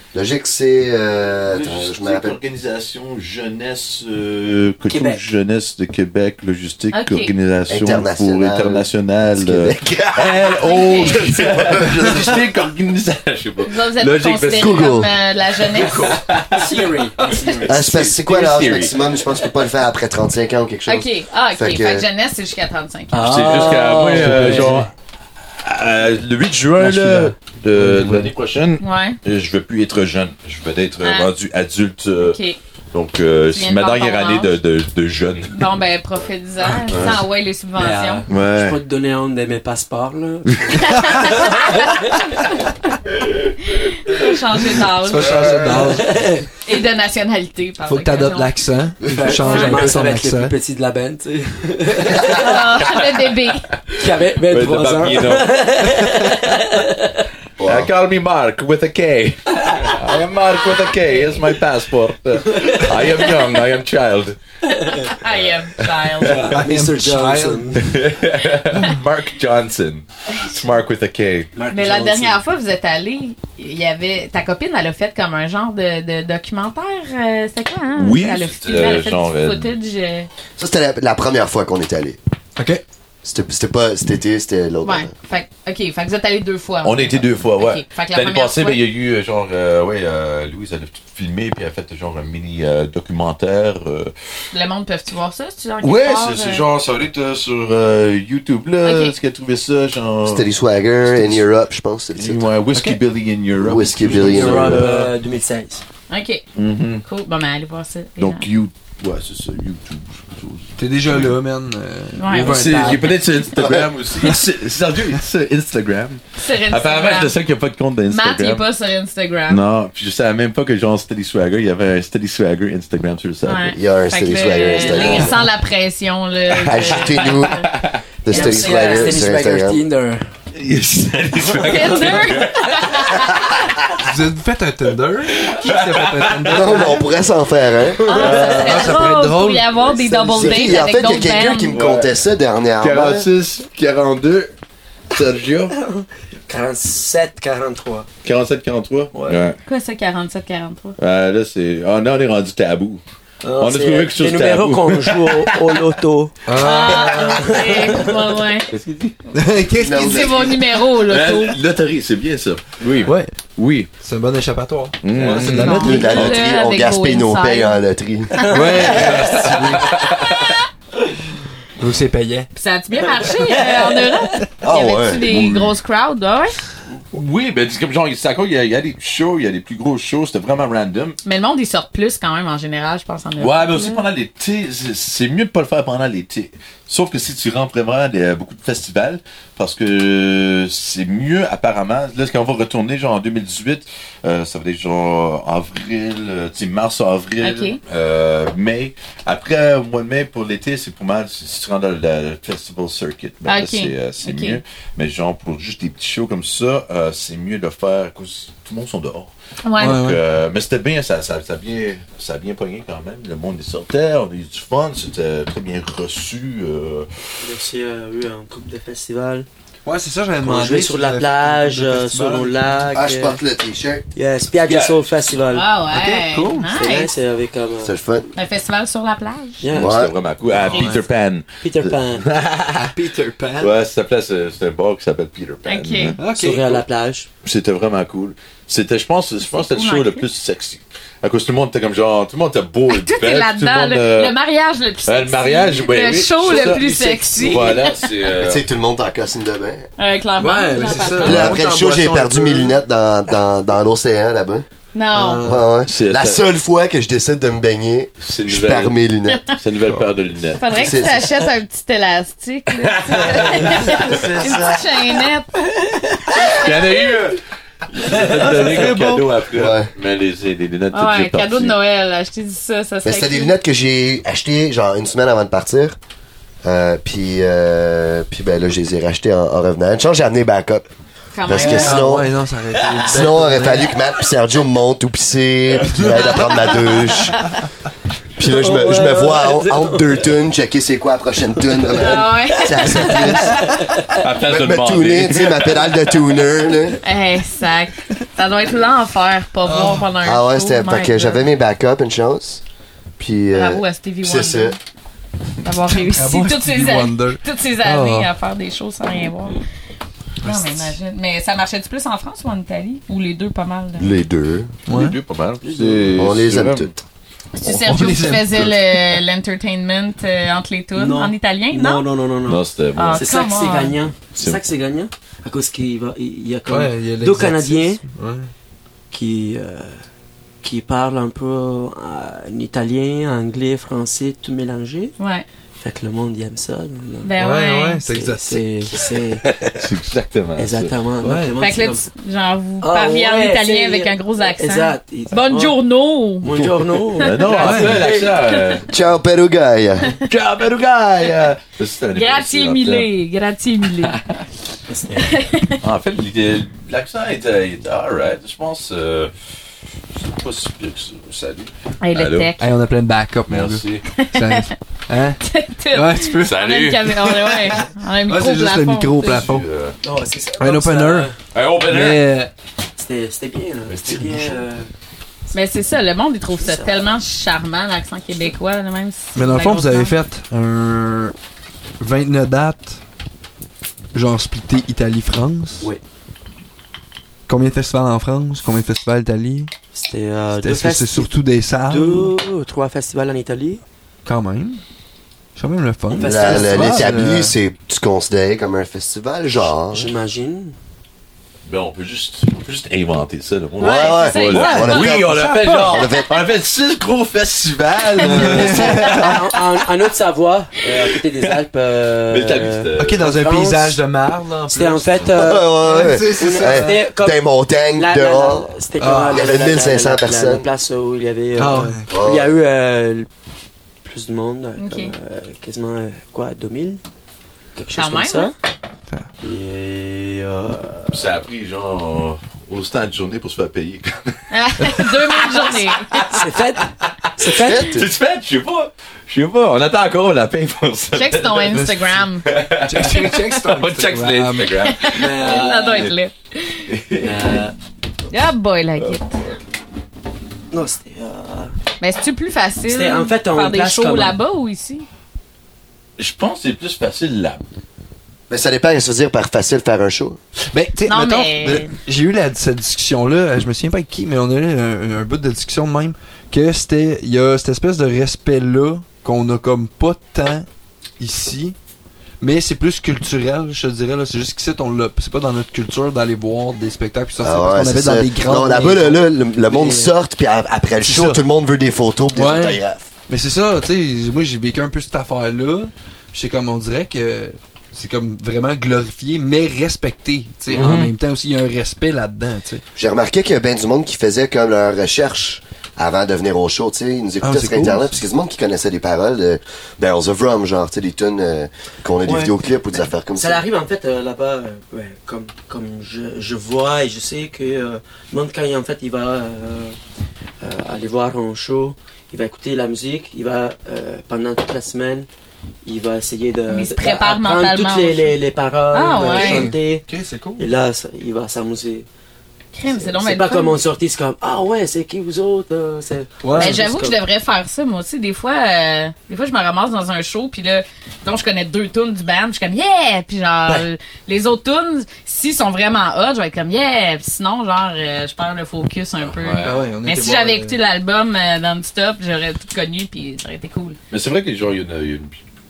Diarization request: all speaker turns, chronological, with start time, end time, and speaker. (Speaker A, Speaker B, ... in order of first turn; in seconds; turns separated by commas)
Speaker A: 0.1-2.4, Speaker B: 1.5-14.9, Speaker C: 4.8-5.2, Speaker D: 6.9-7.3, Speaker A: 7.7-12.5, Speaker D: 10.6-11.2, Speaker D: 13.6-16.2, Speaker A: 14.5-15.1, Speaker B: 15.6-19.0, Speaker C: 16.5-17.9, Speaker A: 17.7-22.1, Speaker D: 20.9-23.2, Speaker C: 23.1-24.9, Speaker B: 23.2-24.9, Speaker E: 24.2-24.8, Speaker B: 25.6-32.4, Speaker E: 26.8-28.3, Speaker D: 28.8-29.2, Speaker D: 31.0-31.3, Speaker D: 32.2-32.6, Speaker B: 32.9-35.6, Speaker D: 33.5-34.5, Speaker D: 35.5-38.2, Speaker C: 37.8-42.2, Speaker E: 37.8-38.2, Speaker B: 38.3-38.8, Speaker B: 40.5-41.3, Speaker D: 40.8-41.9, Speaker D: 43.7-45.8, Speaker E: 45.0-46.2, Speaker B: 45.3-45.8, Speaker C: 45.9-46.6, Speaker D: 46.6-48.5, Speaker E: 47.9-50.5, Speaker C: 49.1-53.0, Speaker D: 49.4-49.9, Speaker D: 52.2-53.7, Speaker B: 52.4-53.0, Speaker C: 54.0-57.3, Speaker B: 54.0-55.5, Speaker A: 57.6-57.9, Speaker B: 57.6-64.4, Speaker C: 62.6-63.2, Speaker C: 64.7-65.1, Speaker D: 64.9-66.5, Speaker C: 66.2-67.9, Speaker B: 66.2-66.5, Speaker E: 66.5-67.9, Speaker B: 67.8-71.5, Speaker C: 71.5-72.4, Speaker D: 71.7-80.3, Speaker B: 78.0-79.7, Speaker A: 80.6-82.2, Speaker E: 82.6-82.8, Speaker A: 83.2-85.1, Speaker D: 84.8-88.8, Speaker B: 86.8-94.1, Speaker D: 94.5-96.7, Speaker B: 95.8-100.5, Speaker D: 98.8-99.2, Speaker A: 100.3-102.4, Speaker B: 101.0-101.4, Speaker B: 102.2-105.0, Speaker E: 102.7-103.0, Speaker A: 103.6-104.9, Speaker E: 104.0-105.1, Speaker C: 104.0-105.8, Speaker D: 106.1-106.4, Speaker B: 106.5-107.0, Speaker D: 107.0-108.5, Speaker B: 108.2-111.3, Speaker E: 110.8-113.1, Speaker D: 112.2-112.9, Speaker B: 112.3-118.7, Speaker A: 113.6-113.9, Speaker D: 116.4-117.4, Speaker D: 118.1-119.6, Speaker B: 119.5-123.7, Speaker D: 123.4-127.7, Speaker A: 123.7-125.4, Speaker B: 124.8-125.3, Speaker B: 126.5-128.0, Speaker A: 126.7-127.7, Speaker A: 128.2-129.8, Speaker C: 128.3-130.3, Speaker D: 128.3-129.2, Speaker B: 130.5-134.0, Speaker C: 131.5-132.5, Speaker D: 131.6-133.7, Speaker E: 134.0-137.0, Speaker B: 135.3-136.9, Speaker A: 136.5-138.3, Speaker C: 138.0-138.9, Speaker D: 138.1-141.8, Speaker B: 138.1-138.9, Speaker E: 138.4-139.7, Speaker A: 140.1-143.2, Speaker B: 141.7-142.1, Speaker B: 142.8-144.5, Speaker B: 145.1-145.8, Speaker C: 145.2-148.1, Speaker B: 148.2-149.6, Speaker D: 149.7-151.0, Speaker B: 151.0-153.0, Speaker C: 153.4-158.2, Speaker B: 153.6-155.7, Speaker E: 156.5-157.4, Speaker D: 156.6-158.7, Speaker B: 158.7-159.2, Speaker E: 159.3-160.3, Speaker A: 159.8-160.6, Speaker D: 159.9-161.6, Speaker B: 160.9-163.9, Speaker E: 163.1-163.3, Speaker E: 164.0-166.1, Speaker B: 165.0-166.4, Speaker D: 165.5-167.8, Speaker A: 165.8-168.9, Speaker D: 168.4-168.9, Speaker E: 168.5-170.0, Speaker B: 168.9-170.6, Speaker E: 171.8-172.5, Speaker D: 172.6-176.6, Speaker A: 174.6-175.6, Speaker B: 175.3-175.6, Speaker B: 177.1-181.2, Speaker D: 181.2-184.1, Speaker B: 183.4-217.1, Speaker D: 197.4-197.8, Speaker D: 203.4-204.6, Speaker D: 209.7-210.0, Speaker E: 209.8-210.2, Speaker C: 217.4-219.5, Speaker E: 219.8-222.9, Speaker C: 220.4-223.4, Speaker A: 222.9-224.0, Speaker C: 224.1-225.7, Speaker B: 224.6-225.1, Speaker D: 225.5-227.1, Speaker E: 225.9-226.7, Speaker C: 226.8-227.9, Speaker A: 227.8-228.3, Speaker D: 228.4-229.6, Speaker C: 229.6-230.0, Speaker B: 229.7-232.9, Speaker A: 229.8-230.1, Speaker E: 230.5-231.0, Speaker C: 231.6-232.3, Speaker E: 232.7-233.7, Speaker B: 233.6-236.2, Speaker D: 235.7-236.2, Speaker E: 236.2-236.8, Speaker C: 236.3-237.3, Speaker B: 237.4-244.3, Speaker D: 239.5-240.3, Speaker D: 242.9-248.0, Speaker B: 245.1-248.6, Speaker C: 246.4-247.9, Speaker A: 248.4-249.9, Speaker D: 250.0-251.5, Speaker E: 250.4-252.8, Speaker B: 251.2-251.6, Speaker A: 251.2-254.7, Speaker D: 254.9-255.4, Speaker E: 255.1-255.7, Speaker A: 255.4-259.4, Speaker B: 255.8-256.4, Speaker B: 258.2-259.0, Speaker D: 259.3-259.6, Speaker B: 259.6-261.0, Speaker D: 260.6-265.5, Speaker A: 260.8-261.3, Speaker B: 262.8-265.2, Speaker C: 263.7-264.1, Speaker B: 266.3-271.8, Speaker D: 266.4-266.7, Speaker E: 268.3-269.2, Speaker A: 269.5-269.9, Speaker D: 270.9-273.6, Speaker A: 273.0-276.0, Speaker A: 276.6-280.9, Speaker D: 281.3-282.1, Speaker A: 281.4-282.3, Speaker E: 281.5-283.9, Speaker A: 283.0-287.4, Speaker E: 285.9-286.2, Speaker D: 286.6-287.2, Speaker A: 288.4-293.8, Speaker C: 288.4-290.3, Speaker D: 291.9-293.4, Speaker E: 293.1-293.7, Speaker B: 294.2-296.2, Speaker A: 294.4-297.0, Speaker D: 297.0-301.4, Speaker E: 299.6-300.1, Speaker A: 300.2-302.6, Speaker A: 303.2-304.8, Speaker D: 303.5-304.8, Speaker D: 305.6-309.6, Speaker E: 305.9-308.3, Speaker E: 310.4-310.9, Speaker D: 310.4-314.1, Speaker A: 314.0-314.7, Speaker E: 314.9-315.2, Speaker B: 314.9-316.9, Speaker C: 315.6-316.2, Speaker A: 316.2-316.9, Speaker D: 317.5-322.0, Speaker E: 317.6-318.8, Speaker C: 321.0-322.6, Speaker B: 322.4-323.3, Speaker D: 322.9-324.0, Speaker C: 323.2-328.0, Speaker B: 324.3-324.6, Speaker E: 326.7-328.5, Speaker C: 329.1-330.0, Speaker C: 330.6-335.1, Speaker D: 335.2-335.4, Speaker C: 335.8-337.3, Speaker D: 337.2-338.0, Speaker E: 337.4-339.0, Speaker C: 338.1-339.4, Speaker B: 339.4-340.9, Speaker C: 340.6-342.1, Speaker E: 341.2-341.6, Speaker D: 341.6-346.5, Speaker C: 342.8-345.8, Speaker C: 346.4-348.4, Speaker B: 346.5-348.9, Speaker D: 347.2-347.8, Speaker E: 347.5-348.1, Speaker D: 348.5-348.8, Speaker A: 348.9-350.2, Speaker B: 350.3-353.1, Speaker D: 352.1-354.2, Speaker B: 354.0-354.4, Speaker C: 354.9-355.4, Speaker D: 355.2-355.8, Speaker B: 355.8-359.3, Speaker B: 360.2-362.6, Speaker D: 362.0-362.7, Speaker E: 362.6-369.7, Speaker B: 363.5-364.1, Speaker D: 364.1-364.8, Speaker D: 365.4-369.3, Speaker B: 366.4-367.3, Speaker B: 369.2-370.0, Speaker C: 370.0-371.4, Speaker E: 370.6-371.3, Speaker B: 371.5-372.2, Speaker E: 371.9-372.5, Speaker C: 373.0-374.9, Speaker B: 373.9-374.6, Speaker D: 375.5-380.1, Speaker C: 376.6-377.1, Speaker E: 379.4-381.3, Speaker E: 382.0-383.0, Speaker E: 384.1-385.9, Speaker E: 387.5-389.7, Speaker C: 389.9-391.3, Speaker E: 390.6-392.3, Speaker C: 391.9-393.8, Speaker E: 394.2-394.8, Speaker E: 395.6-397.6, Speaker C: 396.1-397.2, Speaker A: 396.2-400.1, Speaker C: 399.9-400.8, Speaker B: 401.7-409.5, Speaker D: 403.8-405.1, Speaker A: 403.8-406.3, Speaker E: 404.5-406.1, Speaker E: 408.3-409.3, Speaker C: 408.3-414.0, Speaker B: 410.8-411.6, Speaker B: 412.3-413.2, Speaker E: 413.0-417.0, Speaker C: 414.7-417.4, Speaker A: 415.4-418.7, Speaker C: 417.9-423.3, Speaker E: 419.0-419.6, Speaker A: 419.3-420.7, Speaker E: 421.6-422.1, Speaker A: 422.1-422.5, Speaker C: 424.0-427.0, Speaker D: 424.8-425.1, Speaker C: 427.8-428.5, Speaker D: 427.9-428.5, Speaker C: 429.4-431.3, Speaker B: 431.1-436.5, Speaker D: 434.5-436.1, Speaker C: 436.2-438.0, Speaker B: 437.0-441.9, Speaker D: 441.1-442.5, Speaker E: 441.7-442.1, Speaker B: 442.4-446.1, Speaker E: 442.7-444.9, Speaker D: 444.8-446.9, Speaker C: 445.1-446.1, Speaker B: 446.9-447.7, Speaker C: 447.2-447.7, Speaker D: 448.3-449.4, Speaker B: 449.0-449.6, Speaker C: 450.7-451.7, Speaker D: 452.0-455.1, Speaker C: 452.9-454.4, Speaker B: 456.2-457.6, Speaker A: 458.5-460.4, Speaker E: 460.6-470.7, Speaker D: 461.1-461.9, Speaker E: 471.2-471.8, Speaker E: 472.4-480.1, Speaker A: 477.4-483.0, Speaker E: 481.0-481.4, Speaker E: 482.4-492.8, Speaker B: 490.7-491.1, Speaker A: 493.0-503.6, Speaker E: 497.4-498.2, Speaker E: 502.3-502.6, Speaker C: 503.4-510.0, Speaker C: 510.6-515.3, Speaker C: 515.9-520.1, Speaker D: 516.7-518.4, Speaker D: 518.9-519.7, Speaker E: 519.2-520.7, Speaker C: 520.6-522.1, Speaker D: 522.7-523.8, Speaker C: 522.9-527.2, Speaker E: 526.4-526.8, Speaker D: 526.6-544.0, Speaker B: 539.2-539.8, Speaker E: 539.6-540.8, Speaker B: 544.1-545.4